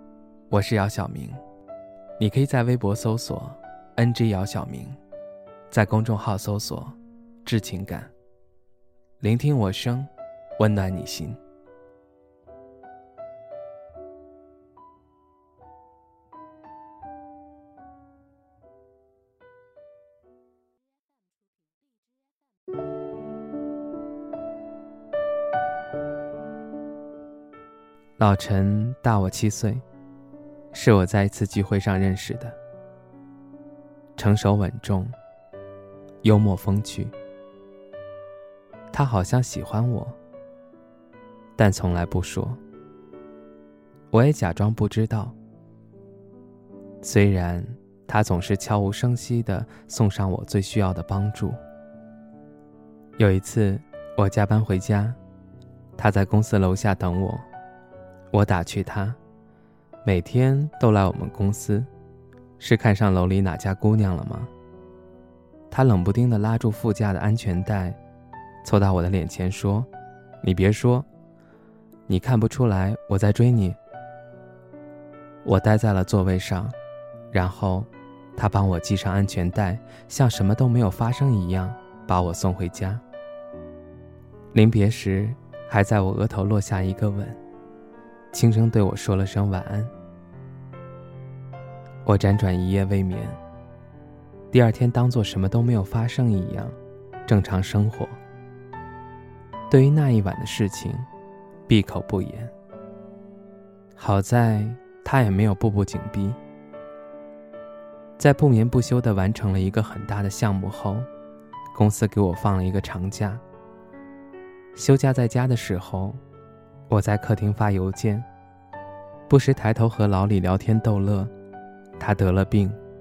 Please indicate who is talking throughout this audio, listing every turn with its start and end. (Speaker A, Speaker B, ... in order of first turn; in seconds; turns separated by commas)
Speaker A: 0.5-1.4, Speaker A: 2.2-5.0, Speaker A: 5.7-8.1, Speaker A: 9.2-11.4, Speaker A: 28.2-29.9, Speaker A: 30.7-32.6, Speaker A: 34.2-35.1, Speaker A: 36.2-37.1, Speaker A: 38.9-40.2, Speaker A: 41.6-42.6, Speaker A: 44.1-45.4, Speaker A: 47.0-51.6, Speaker A: 53.2-55.2, Speaker A: 56.0-57.5, Speaker A: 58.3-59.2, Speaker A: 60.0-61.9, Speaker A: 62.6-64.5, Speaker A: 65.7-68.0, Speaker A: 68.6-69.9, Speaker A: 70.4-71.1, Speaker A: 72.1-73.8, Speaker A: 75.4-76.8, Speaker A: 77.3-83.0, Speaker A: 84.5-87.4, Speaker A: 88.3-89.9, Speaker A: 92.0-93.4, Speaker A: 94.5-98.2, Speaker A: 99.7-101.1, Speaker A: 101.7-102.5, Speaker A: 104.0-106.4, Speaker A: 108.2-111.1, Speaker A: 111.7-113.4, Speaker A: 114.8-116.2, Speaker A: 116.9-118.3, Speaker A: 119.3-121.3, Speaker A: 122.0-122.8